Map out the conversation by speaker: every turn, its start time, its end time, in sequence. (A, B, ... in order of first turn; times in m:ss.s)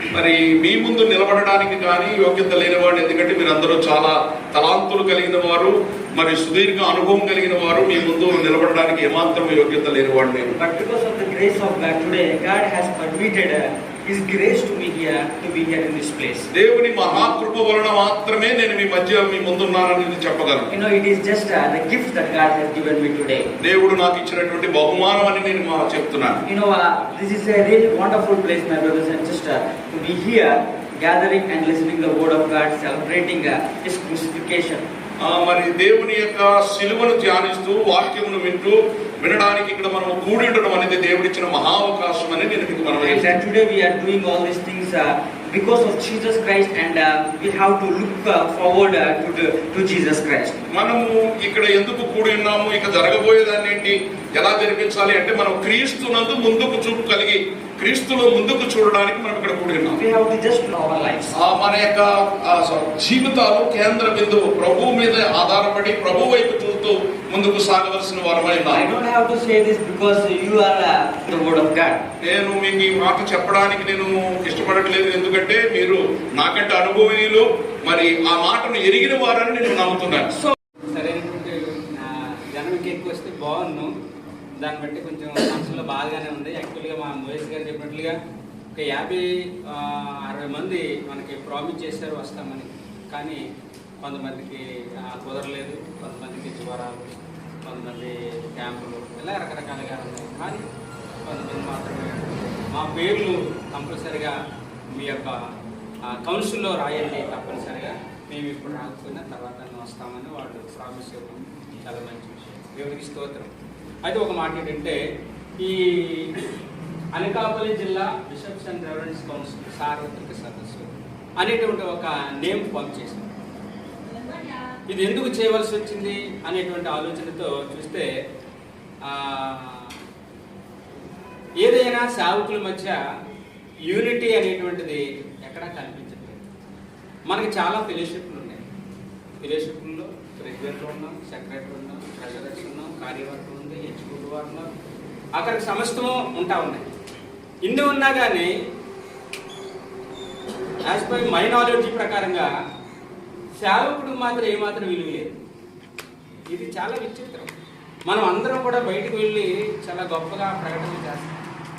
0:00.1-0:10.5 A
0:10.5-0:16.5 B
0:16.5-0:20.7 A
0:20.7-0:23.5 B
0:23.6-0:26.4 A
0:26.5-0:34.8 B
0:35.2-0:43.1 A
0:43.0-0:50.6 B
0:50.7-1:00.0 A
0:59.9-1:01.3 B
1:01.3-1:08.8 A
1:08.7-1:12.0 B
1:12.2-1:20.3 A
1:20.9-1:23.9 C
1:24.6-1:28.2 C
1:28.8-1:33.4 C
1:34.0-1:40.6 C
1:41.2-1:44.4 C
1:44.9-1:45.4 C
1:46.1-1:53.5 C
1:54.0-1:55.0 C
1:55.6-1:56.4 C
1:57.2-2:03.3 C
2:04.9-2:08.1 C
2:09.0-2:09.9 C
2:11.6-2:13.0 C
2:13.9-2:16.4 C
2:17.2-2:18.6 C
2:19.4-2:24.7 C
2:25.4-2:26.9 C
2:27.6-2:28.5 C
2:30.8-2:32.5 C
2:33.6-2:35.4 C
2:36.5-2:37.5 C
2:38.1-2:41.4 C